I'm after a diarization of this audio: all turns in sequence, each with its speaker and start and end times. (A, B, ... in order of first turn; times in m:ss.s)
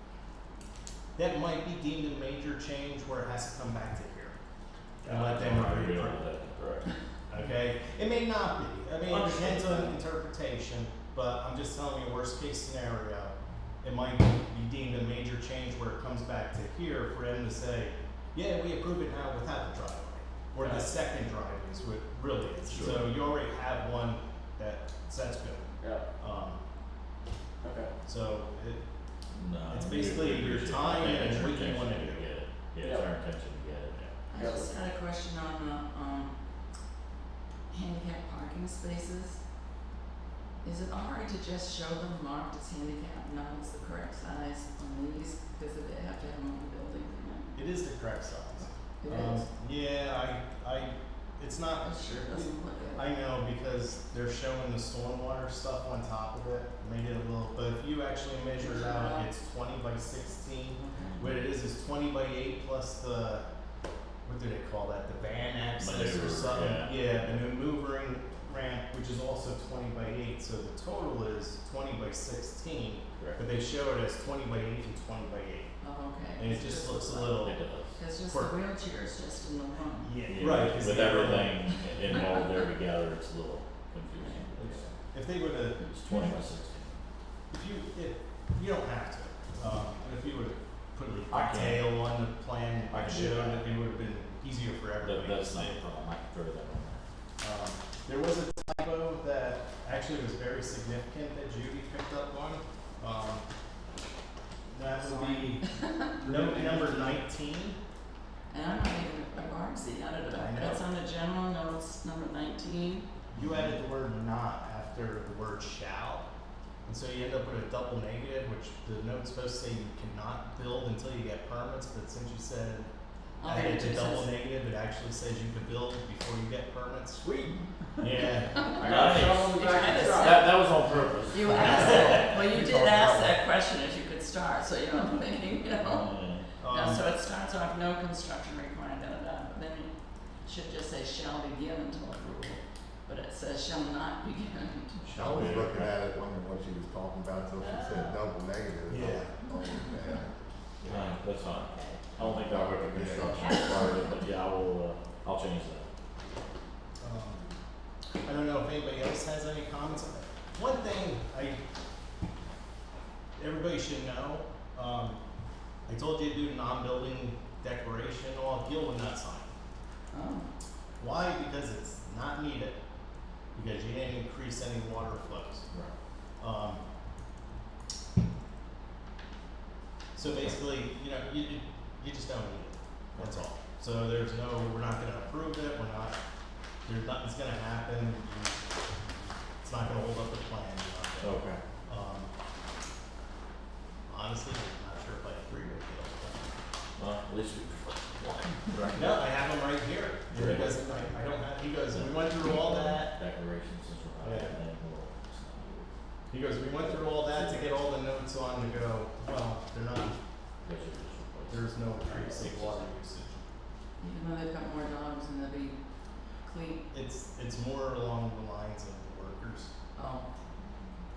0:01.1-0:04.3 A
0:05.0-0:06.9 B
0:05.0-0:06.2 A
0:07.3-0:26.6 A
0:09.1-0:10.0 C
0:20.6-0:20.9 C
0:22.7-0:23.1 B
0:27.6-0:27.9 C
0:28.0-0:28.8 A
0:29.3-0:34.1 B
0:29.7-0:32.2 A
0:32.8-0:33.1 C
0:34.3-0:36.3 D
0:34.3-0:34.7 C
0:37.7-0:39.4 D
0:40.6-0:47.6 D
0:47.5-1:03.4 A
0:49.0-0:49.5 D
0:51.8-0:53.1 D
0:58.6-0:59.3 D
1:01.0-1:01.4 B
1:04.2-1:15.7 A
1:05.8-1:07.0 B
1:15.8-1:20.1 D
1:16.4-1:17.6 A
1:17.4-1:18.0 B
1:18.2-1:18.5 A
1:20.0-1:22.0 A
1:20.2-1:24.9 B
1:24.2-1:24.4 D
1:24.6-1:25.8 A
1:25.8-1:27.0 B
1:27.5-1:35.8 A
1:31.3-1:32.0 B
1:32.9-1:33.6 B
1:35.0-1:37.0 B
1:37.4-1:43.4 A
1:44.7-1:45.7 A
1:45.0-1:46.1 D
1:46.0-1:47.2 C
1:46.2-1:47.8 A
1:48.5-1:53.1 D
1:50.3-1:50.8 A
1:53.3-1:56.2 A
1:56.8-2:02.9 A
2:03.4-2:04.3 D
2:03.4-2:07.3 A
2:07.2-2:08.1 C
2:08.0-2:08.6 A
2:08.6-2:10.5 D
2:08.6-2:10.5 C
2:08.8-2:12.6 B
2:11.3-2:25.1 D
2:12.6-2:13.0 E
2:15.8-2:16.4 B
2:16.6-2:17.0 A
2:25.0-2:25.9 B
2:25.1-2:31.1 E
2:27.6-2:28.2 D
2:28.9-2:29.3 A
2:29.5-2:29.9 D
2:30.8-2:35.9 B
2:31.7-2:32.0 D
2:32.1-2:33.9 E
2:33.4-2:34.1 D
2:37.0-2:37.4 A
2:38.2-2:41.6 A
2:43.4-2:45.2 A
2:45.9-2:49.5 A
2:50.1-2:50.5 D
2:51.0-2:52.8 A
2:53.5-2:55.6 A
2:56.4-2:56.8 A
3:00.1-3:06.2 A
3:03.1-3:03.4 B
3:06.8-3:08.6 A
3:09.6-3:12.3 A
3:11.2-3:11.6 B
3:14.1-3:16.5 A
3:17.0-3:19.2 B
3:18.9-3:23.1 A
3:20.3-3:21.0 B
3:21.9-3:25.9 B
3:24.2-3:24.5 A
3:26.3-3:30.2 A
3:26.7-3:27.6 B
3:30.6-3:32.8 B
3:31.5-3:33.4 A
3:32.0-3:32.8 C
3:34.0-3:36.8 D
3:36.9-3:39.7 A
3:40.0-3:40.3 D